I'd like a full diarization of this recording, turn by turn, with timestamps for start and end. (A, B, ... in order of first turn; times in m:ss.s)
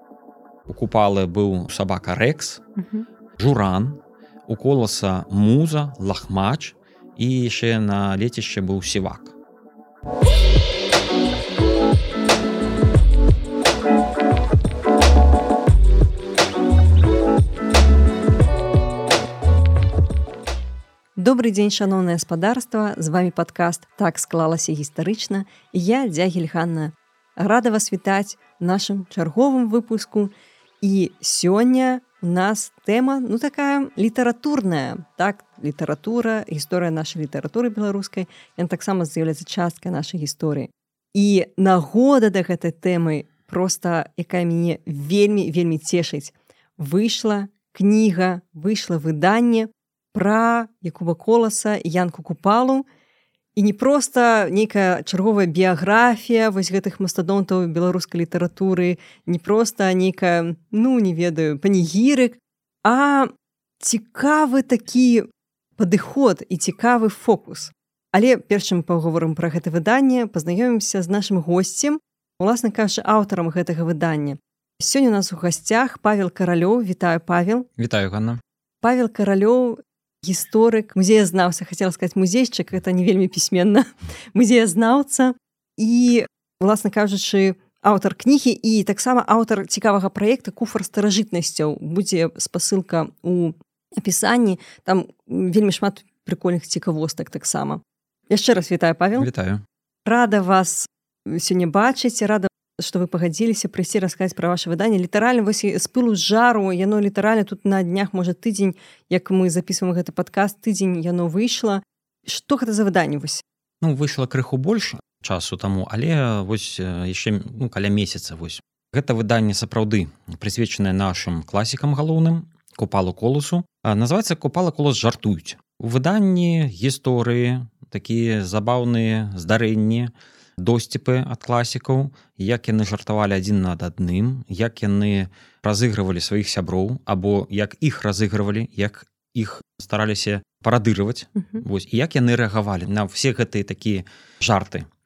0:00.7-0:02.6 A
0:02.8-0:03.0 B
0:03.4-0:09.3 A
0:21.2-0:52.8 B
0:53.6-1:17.7 B
1:17.8-1:18.4 A
1:18.8-1:39.3 B
1:39.2-1:39.6 A
1:40.0-1:53.4 B
1:53.8-2:24.9 A